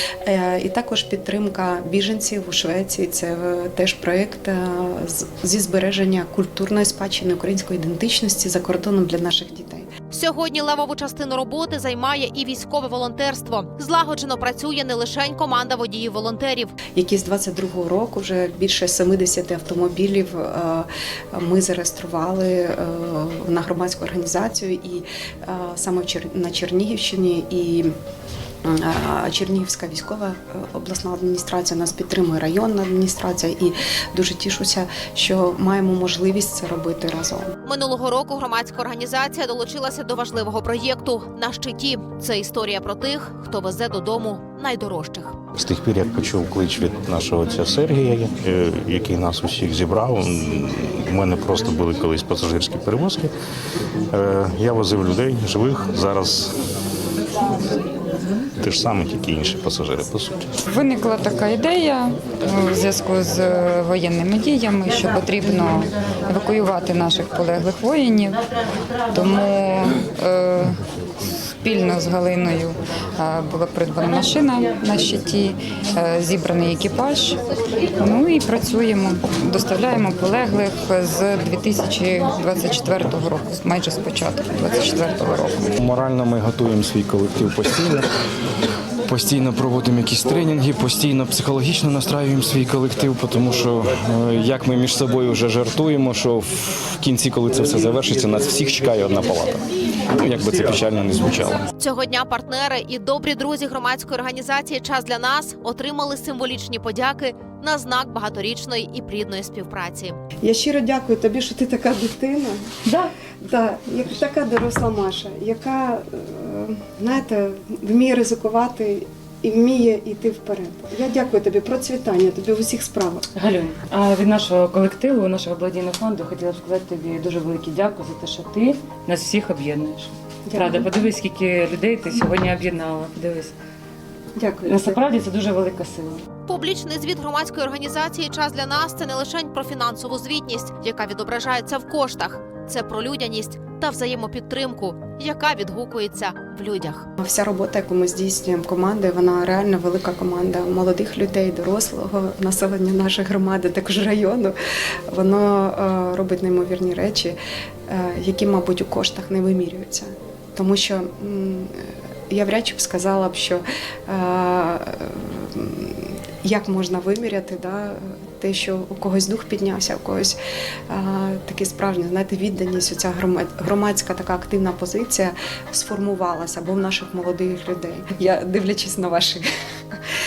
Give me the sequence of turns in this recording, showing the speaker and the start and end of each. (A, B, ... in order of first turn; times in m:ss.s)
0:00.2-0:09.9 A
0:10.1-0:16.7 B
0:16.9-0:27.9 A
0:28.6-0:37.5 A
0:37.6-0:45.3 B
0:45.5-0:53.3 C
0:54.1-0:56.5 C
0:58.6-1:00.4 C
1:00.7-1:08.4 D
1:09.1-1:10.8 D
1:11.6-1:17.4 D
1:18.0-1:25.7 D
1:25.8-1:28.0 E
1:29.1-1:41.6 E
1:41.8-1:50.2 B
1:50.4-1:52.6 A
1:53.4-2:03.2 A
2:03.3-2:13.5 F
2:10.5-2:10.9 A
2:14.4-2:15.0 A
2:14.7-2:16.2 F
2:16.5-2:27.0 B
2:27.2-2:34.5 A
2:35.1-2:37.4 A
2:37.9-2:50.4 A
2:50.9-3:00.0 A